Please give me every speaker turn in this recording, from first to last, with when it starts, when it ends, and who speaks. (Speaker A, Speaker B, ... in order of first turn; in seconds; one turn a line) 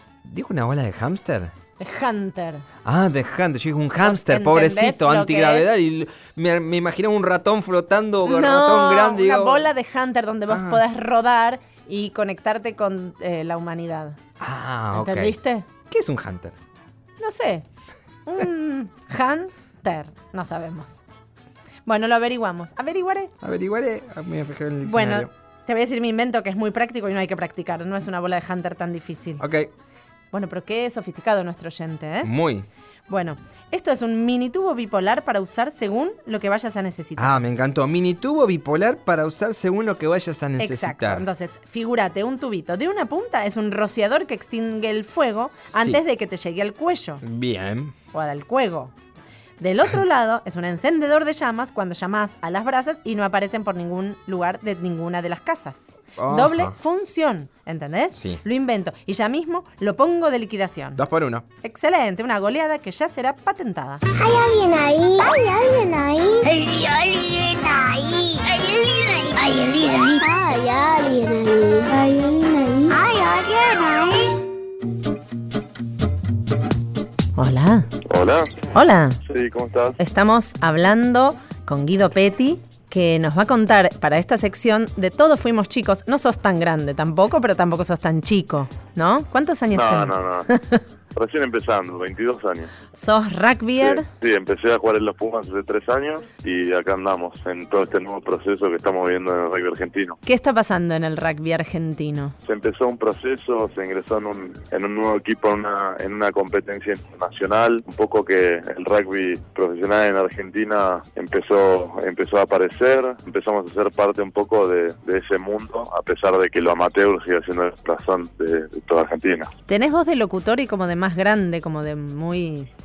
Speaker A: 0.3-1.5
Speaker B: 1.8-2.6
Speaker A: 2.9-9.7
Speaker B: 4.0-5.7
Speaker B: 8.2-14.2
Speaker A: 10.5-10.8
Speaker A: 14.4-15.4
Speaker B: 14.9-15.7
Speaker A: 15.9-16.6
Speaker B: 17.2-17.6
Speaker B: 18.3-21.0
Speaker B: 21.9-23.3
Speaker A: 23.4-25.3
Speaker B: 24.8-29.4
Speaker A: 29.4-29.7
Speaker B: 30.3-32.3
Speaker A: 32.2-32.7
Speaker B: 33.1-37.5
Speaker A: 37.2-41.3
Speaker B: 40.6-47.2
Speaker A: 45.7-46.0
Speaker A: 47.2-47.9
Speaker B: 48.1-48.9
Speaker B: 49.6-61.0
Speaker A: 56.2-56.8
Speaker A: 58.1-58.4
Speaker A: 61.0-61.5
Speaker B: 61.6-64.0
Speaker C: 64.2-72.0
Speaker C: 72.9-74.3
Speaker B: 77.4-77.9
Speaker D: 78.1-78.5
Speaker B: 78.7-79.2
Speaker D: 79.2-80.0
Speaker B: 80.0-90.8
Speaker D: 89.7-90.5
Speaker D: 91.2-92.7
Speaker B: 92.9-94.1
Speaker D: 93.8-100.2
Speaker B: 100.2-102.3
Speaker D: 102.4-119.5
Speaker B: 119.7-122.7